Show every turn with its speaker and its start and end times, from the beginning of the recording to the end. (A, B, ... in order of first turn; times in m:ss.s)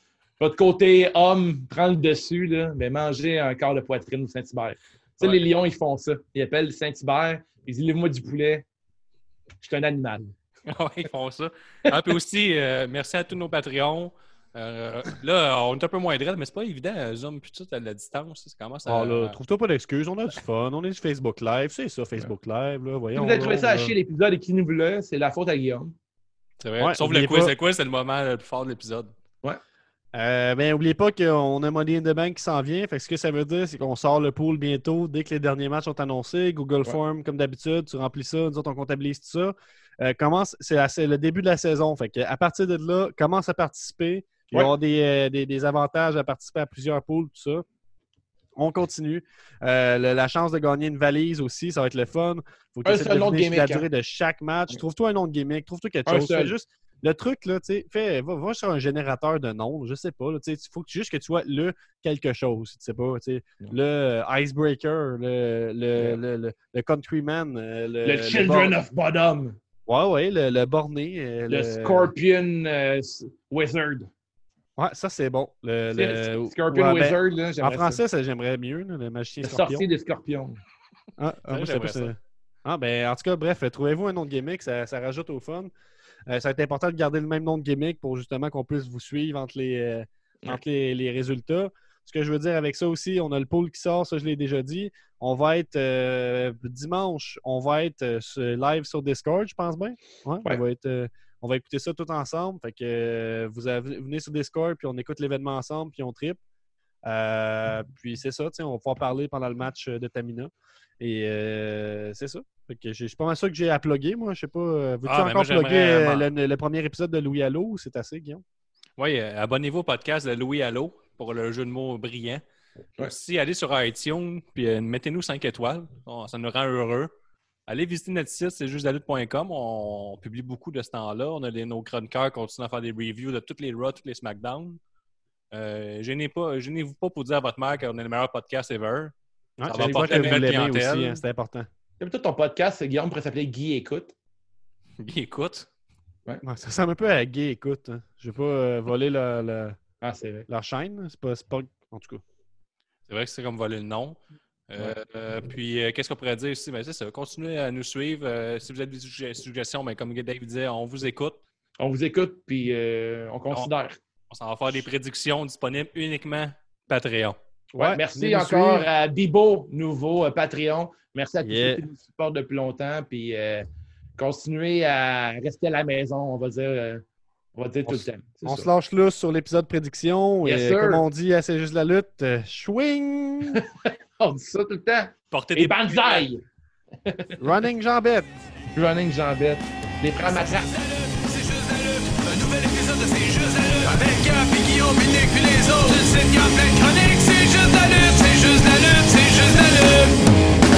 0:00.4-0:08.6 A
0:09.6-0:10.3 A
0:10.7-0:19.4 B
0:18.8-0:23.9 C
0:23.1-0:25.9 A
0:26.6-0:29.1 B
0:26.8-0:27.5 C
0:30.1-0:47.6 C
0:48.6-1:08.8 C
0:52.8-0:53.8 A
0:56.0-0:56.5 A
1:08.0-1:09.6 A
1:09.9-1:12.1 C
1:11.5-1:14.1 A
1:14.8-1:19.9 C
1:15.9-1:18.0 A
1:19.4-1:20.6 A
1:21.2-1:25.7 C
1:21.5-1:22.1 B
1:26.3-1:46.4 C
1:47.0-1:58.4 C
1:55.0-1:56.3 B
1:59.0-2:02.4 B
2:03.0-2:07.1 B
2:07.7-2:14.8 B
2:15.5-2:19.1 B
2:19.6-2:21.7 C
2:19.6-2:21.2 B
2:22.0-2:24.1 A
2:25.0-2:25.7 B
2:26.4-2:29.8 C
2:30.0-2:30.5 A
2:30.5-2:32.2 C
2:33.1-2:41.4 B
2:41.8-2:44.0 A
2:44.3-2:47.4 B
2:47.7-2:48.9 C
2:47.8-2:53.6 A
2:51.4-2:51.8 C
2:54.2-2:57.0 A
2:57.5-2:58.7 A
2:57.9-3:03.6 C
3:00.4-3:01.0 A
3:03.5-3:06.4 A
3:05.3-3:06.2 B
3:07.0-3:07.4 A
3:07.4-3:08.4 C
3:08.7-3:10.7 A
3:10.2-3:20.2 D